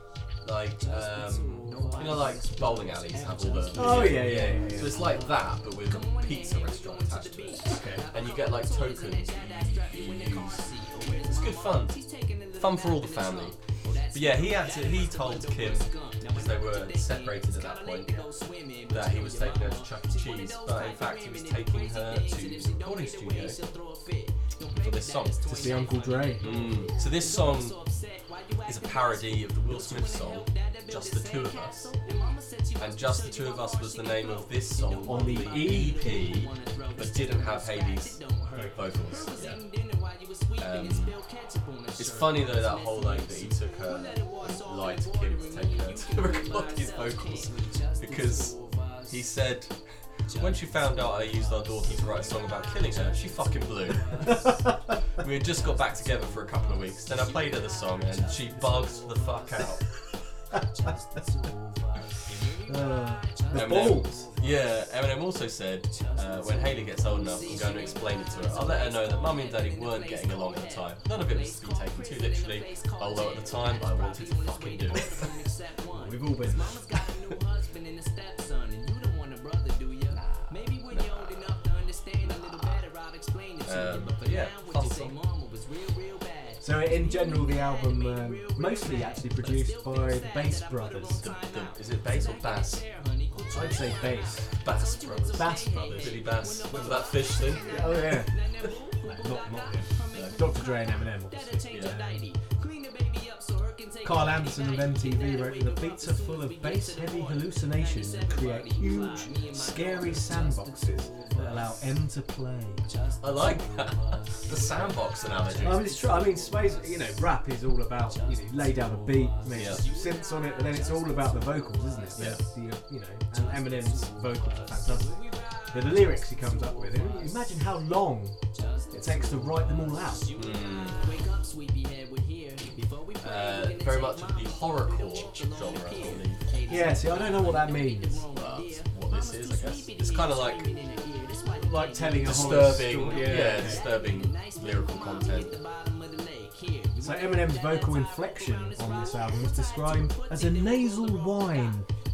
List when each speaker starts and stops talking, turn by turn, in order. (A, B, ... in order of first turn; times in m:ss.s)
0:00.4-0:18.3 A
0:03.8-0:05.0 B
0:07.6-0:08.1 B
0:18.9-0:23.6 A
0:24.7-0:25.6 A
0:25.4-0:26.7 B
0:26.4-0:27.8 A
0:28.6-0:32.0 A
0:32.8-0:39.6 A
0:35.0-0:36.4 B
0:40.6-0:41.2 A
0:42.0-0:49.8 A
0:50.3-0:59.9 A
0:54.3-0:54.7 B
1:00.5-1:00.9 B
1:02.6-1:04.3 B
1:03.5-1:15.2 A
1:15.9-1:16.9 B
1:16.9-1:17.3 A
1:20.8-1:21.6 A
1:22.2-1:22.8 A
1:23.6-1:25.2 A
1:26.6-1:31.2 B
1:31.2-1:37.8 A
1:33.5-1:34.5 B
1:35.3-1:36.2 B
1:36.7-1:37.0 B
1:37.6-1:38.4 B
1:39.0-1:42.4 B
1:40.1-1:40.4 A
1:41.7-1:42.0 A
1:44.0-1:52.9 B
1:53.2-1:55.8 A
1:55.6-2:08.4 B
1:59.5-1:59.9 A
2:02.2-2:02.4 A
2:08.9-2:10.3 B
2:10.3-2:11.2 A
2:13.2-2:16.6 A
2:16.7-2:18.3 B
2:17.1-2:17.6 A
2:18.3-2:20.8 A
2:21.6-2:23.9 B
2:22.2-2:25.6 A
2:27.0-2:31.9 B